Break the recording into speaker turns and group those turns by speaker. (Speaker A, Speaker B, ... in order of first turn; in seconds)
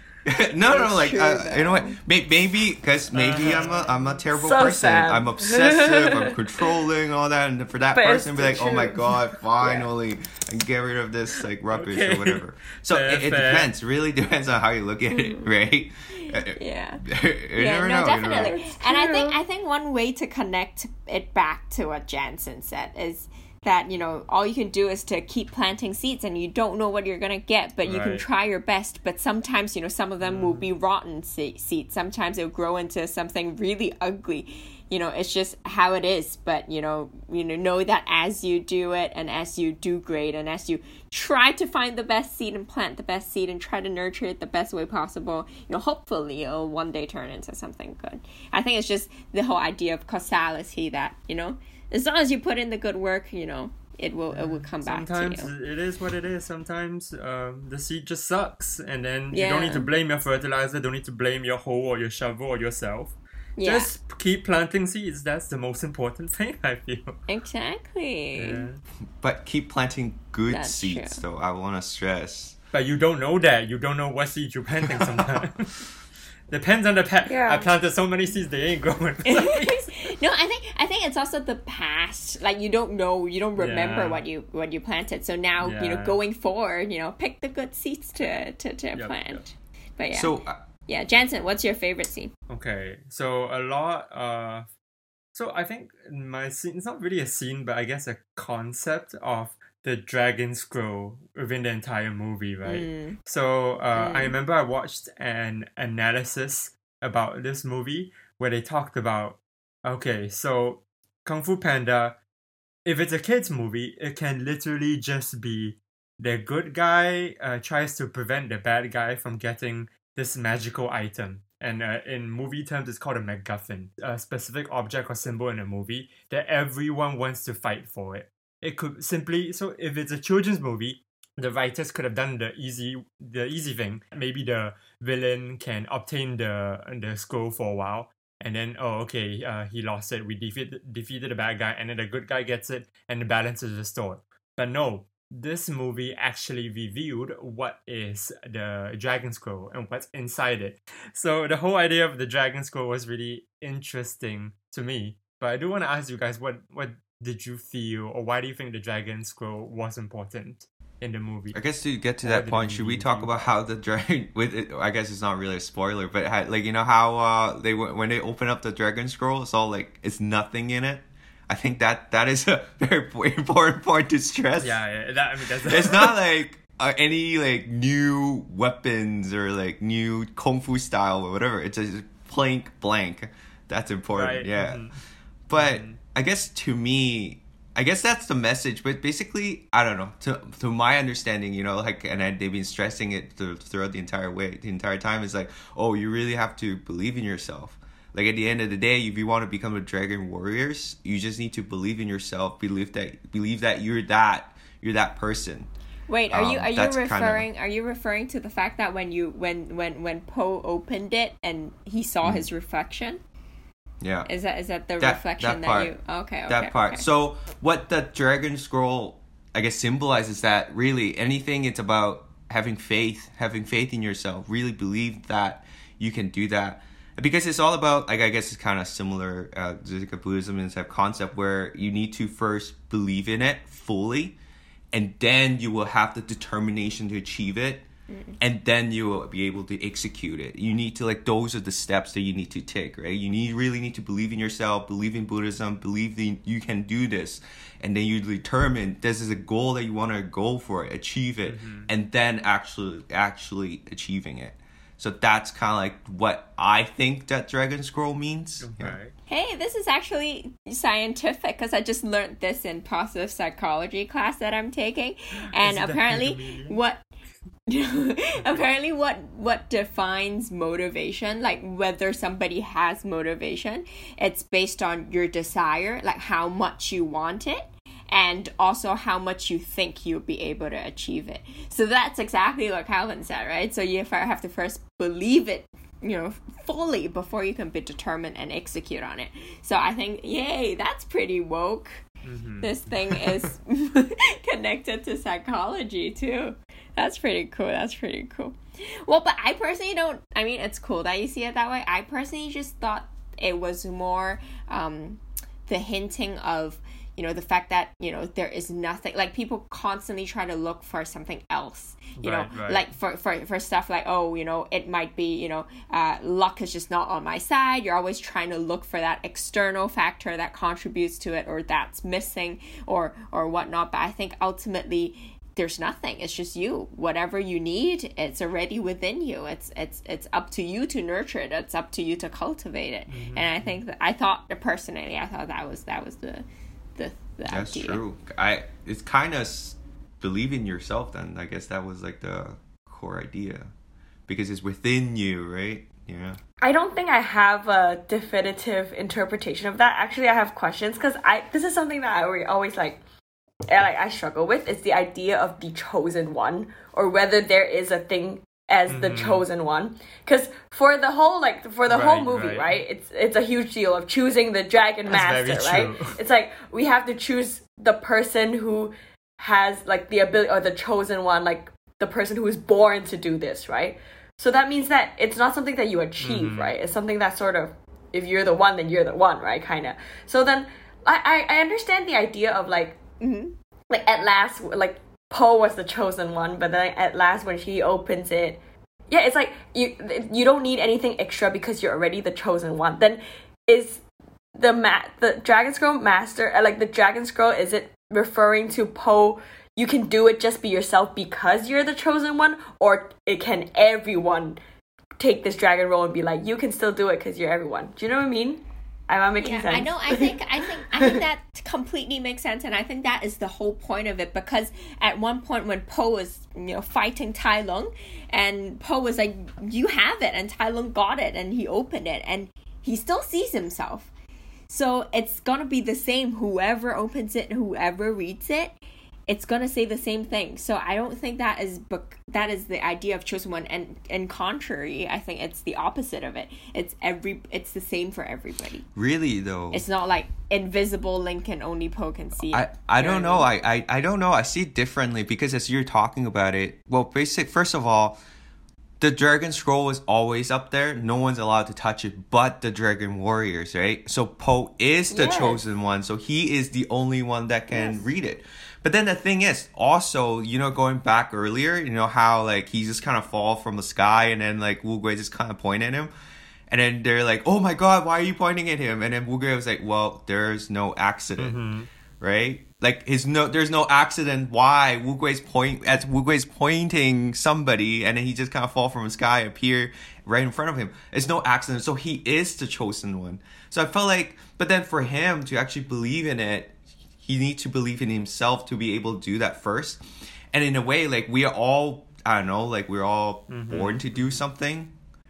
Speaker A: 0.2-18.6, 69.2-72.5, 90.1-90.6, 161.5-174.8, 175.7-184.8, 185.5-205.7, 206.3-207.4, 214.0-214.3, 215.0-215.9, 216.5-234.4, 234.9-237.8, 238.4-259.0, 337.5-343.7, 344.3-346.4, 438.9-439.8, 442.4-448.2, 449.0-466.1, 466.7-471.6, 472.2-494.9
Speaker B: 0.7-2.0, 16.2-17.0, 17.5-55.5, 59.3-59.9, 63.6-63.9, 67.3-68.6, 70.5-71.2, 79.3-92.3, 102.7-103.2, 103.9-104.4, 206.1-213.2, 214.2-217.0, 238.1-238.3, 259.3-267.0, 267.7-292.0, 292.6-338.0, 383.2-383.6, 409.4-424.1, 424.7-428.7, 429.3-438.8, 439.7-443.5, 455.1-455.6
Speaker C: 3.1-4.0, 11.7-13.7, 27.8-28.2, 30.2-30.7, 54.3-67.2, 68.4-68.8, 72.7-75.8, 76.5-80.1, 83.5-84.2, 85.6-86.2, 88.9-89.4, 92.5-94.7, 95.3-112.1, 112.8-161.6, 162.2-163.5, 174.6-176.1, 184.1-185.0, 185.5-186.0, 251.4-251.9, 258.6-259.1, 265.5-266.8, 292.2-293.4, 312.2-312.9, 333.1-333.8, 358.9-359.4, 361.9-362.7, 365.1-366.1, 376.2-376.7, 471.4-471.9, 493.5-494.4
Speaker D: 4.3-6.8, 7.9-9.9, 15.1-15.5, 18.1-19.4, 77.3-77.7, 346.6-353.0, 353.7-383.0, 383.9-394.0, 394.6-404.6, 405.2-411.2, 457.7-458.0